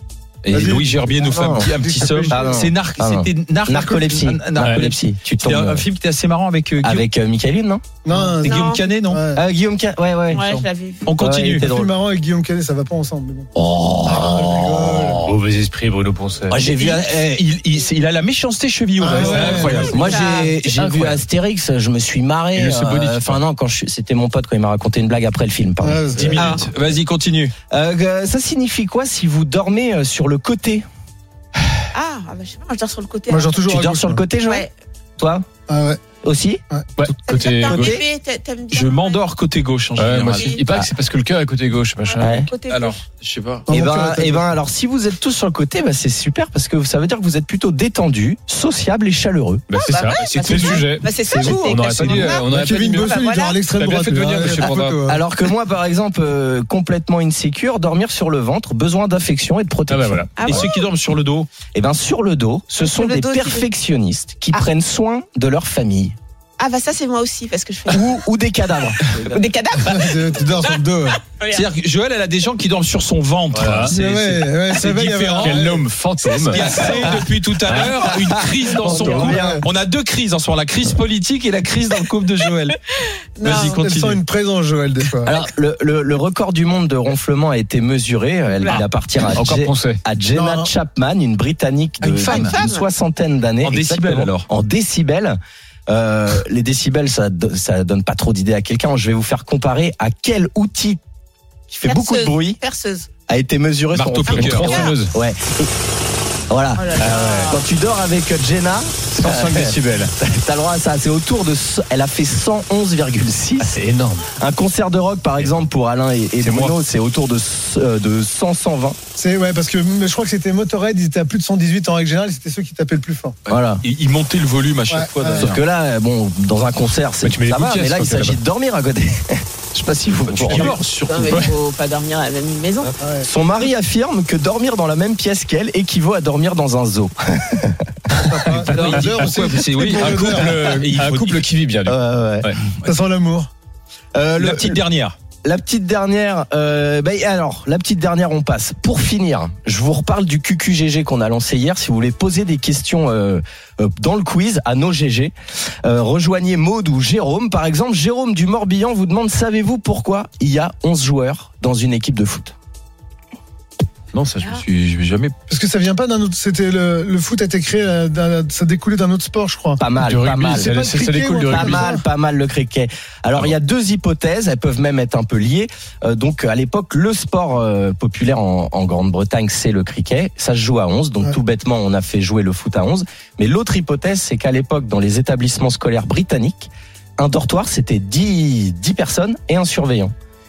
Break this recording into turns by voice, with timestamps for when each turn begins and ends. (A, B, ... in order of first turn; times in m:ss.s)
0:00.4-0:07.1 A
0:00.5-0:02.7 B
0:01.3-0:05.8 C
0:04.6-0:04.8 D
0:06.8-0:07.8 C
0:08.0-0:09.4 B
0:08.1-0:09.2 A
0:08.4-0:08.8 E
0:09.3-0:10.4 C
0:10.3-0:11.0 E
0:10.4-0:11.7 A
0:11.2-0:11.9 C
0:11.6-0:13.5 B
0:13.5-0:15.4 C
0:14.0-0:15.2 B
0:15.2-0:16.6 D
0:16.5-0:17.1 C
0:16.5-0:21.2 A
0:19.0-0:20.0 B
0:19.2-0:26.6 C
0:19.9-0:20.5 E
0:22.5-0:23.4 D
0:25.8-0:26.5 B
0:26.1-0:27.5 A
0:26.3-0:26.6 E
0:27.7-0:30.8 C
0:31.9-0:33.6 E
0:33.3-0:34.2 B
0:33.6-0:34.7 C
0:34.4-0:34.7 E
0:35.2-0:35.5 C
0:35.7-0:36.0 B
0:36.2-0:36.6 C
0:37.0-0:37.8 D
0:37.2-0:39.2 E
0:37.7-0:38.0 C
0:37.7-0:38.0 A
0:38.7-0:40.6 A
0:39.9-0:42.4 D
0:40.2-0:40.6 E
0:42.0-0:43.0 E
0:42.2-0:42.5 C
0:42.7-0:43.7 A
0:43.7-0:44.5 B
0:43.7-0:49.6 C
0:49.7-0:55.0 D
0:49.8-0:53.6 E
0:50.2-0:52.5 A
0:52.5-0:55.2 B
0:54.4-1:00.3 C
0:59.9-1:00.6 D
1:00.4-1:00.9 E
1:00.4-1:01.5 A
1:01.7-1:06.1 C
1:02.8-1:03.7 E
1:06.6-1:08.2 E
1:07.9-1:09.2 C
1:09.0-1:11.6 E
1:09.8-1:11.2 B
1:11.5-1:15.7 A
1:13.5-1:13.9 D
1:13.9-1:17.2 B
1:15.4-1:16.7 D
1:16.4-1:22.8 A
1:18.0-1:19.6 C
1:18.7-1:19.6 B
1:19.0-1:19.3 D
1:23.4-1:23.8 E
1:23.4-1:24.2 A
1:23.4-1:25.4 B
1:25.2-1:41.0 C
1:28.7-1:30.0 D
1:30.3-1:30.7 B
1:32.0-1:32.6 A
1:32.2-1:32.8 E
1:33.6-1:34.5 A
1:41.7-1:42.6 C
1:41.8-1:43.1 E
1:43.3-1:45.7 C
1:43.9-1:44.8 A
1:44.3-1:45.0 E
1:44.3-1:45.1 D
1:46.5-1:53.8 C
1:46.8-1:47.6 E
1:47.0-1:47.6 D
1:49.1-1:50.1 D
1:53.6-1:54.3 D
1:54.4-1:59.0 C
1:56.4-1:56.8 D
1:59.2-2:03.4 B
2:03.5-2:03.8 C
2:03.5-2:05.6 A
2:04.9-2:05.5 B
2:05.4-2:10.8 C
2:07.2-2:08.4 D
2:10.3-2:11.5 A
2:10.5-2:10.7 D
2:11.0-2:12.9 E
2:13.0-2:13.3 B
2:13.2-2:17.9 C
2:18.2-2:20.6 B
2:18.5-2:21.5 A
2:18.5-2:19.3 D
2:19.9-2:22.6 D
2:21.8-2:22.6 C
2:22.8-2:23.5 B
2:24.1-2:24.8 C
2:24.4-2:25.1 A
2:25.4-2:42.5 C
2:44.1-2:45.3 A
2:45.5-2:49.8 B
2:49.8-2:50.7 C
2:49.9-2:51.8 D
2:50.5-2:52.0 B
2:51.5-3:10.1 C